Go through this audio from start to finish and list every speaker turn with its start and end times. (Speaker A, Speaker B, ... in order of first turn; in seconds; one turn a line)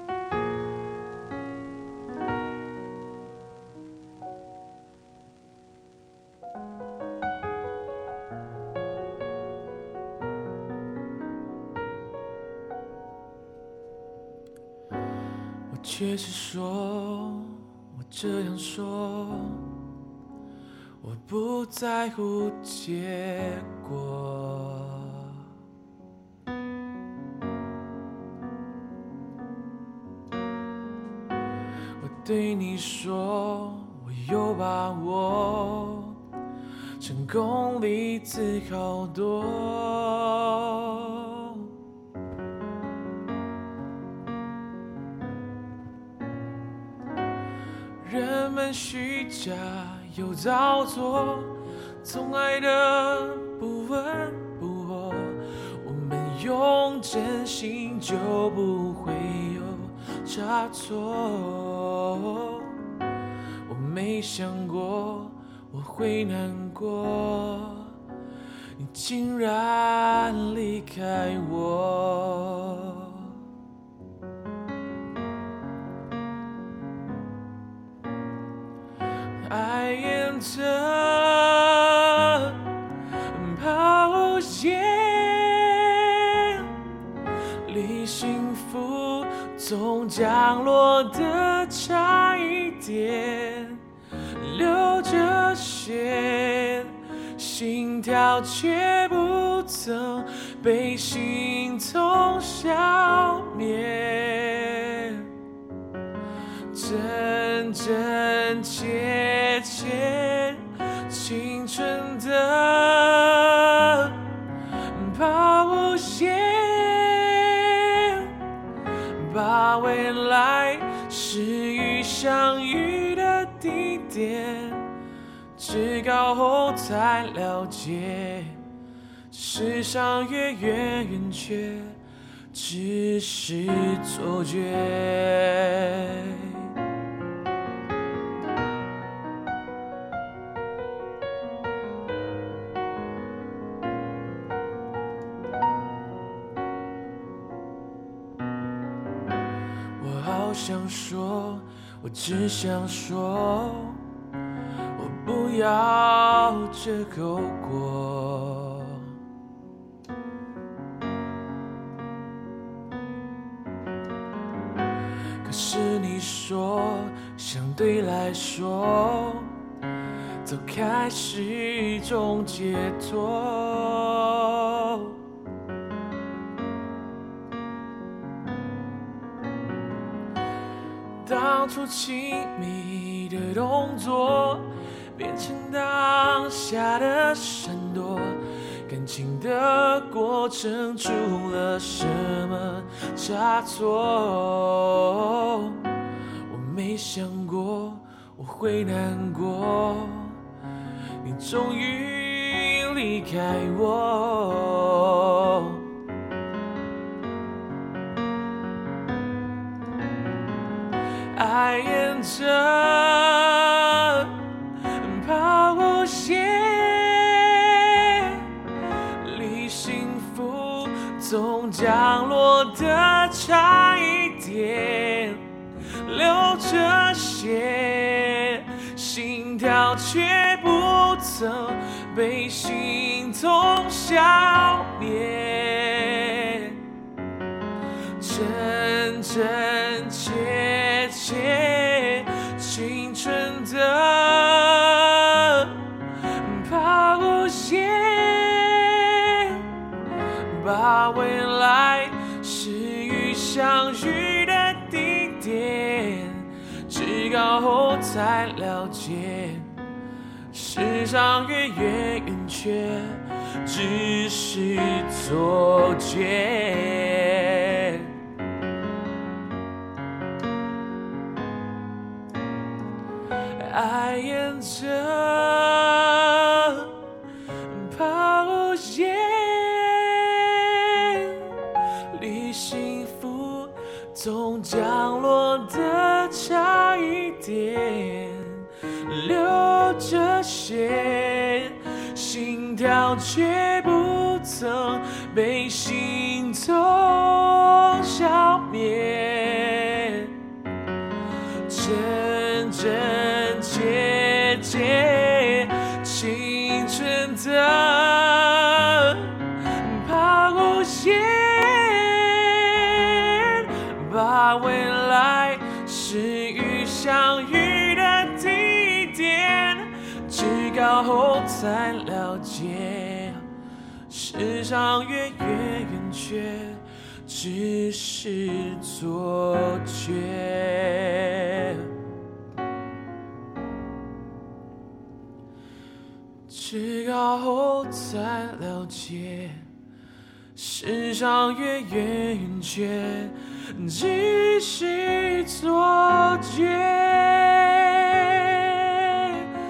Speaker A: 15.7-19.6
Speaker A: 21.0-25.3
Speaker A: 32.0-36.2
Speaker A: 37.0-41.6
Speaker A: 48.0-62.8
Speaker A: 63.7-67.9
Speaker A: 68.8-73.3
Speaker A: 79.4-82.6
Speaker A: 83.3-86.7
Speaker A: 87.6-93.8
Speaker A: 94.4-105.3
Speaker A: 106.7-114.2
Speaker A: 114.9-118.3
Speaker A: 119.2-124.9
Speaker A: 125.5-128.6
Speaker A: 129.3-132.0
Speaker A: 132.5-136.7
Speaker A: 150.0-154.0
Speaker A: 155.0-159.1
Speaker A: 165.4-169.6
Speaker A: 170.4-175.2
Speaker A: 181.2-195.8
Speaker A: 196.5-200.4
Speaker A: 201.2-205.8
Speaker A: 211.3-214.3
Speaker A: 214.8-218.5
Speaker A: 219.2-236.8
Speaker A: 238.2-245.9
Speaker A: 246.4-249.6
Speaker A: 250.5-259.7
Speaker A: 260.5-268.1
Speaker A: 273.6-276.9
Speaker A: 277.7-281.4
Speaker A: 282.1-300.3
Speaker A: 301.7-323.5
Speaker A: 324.1-331.9
Speaker A: 336.5-339.7
Speaker A: 340.6-349.5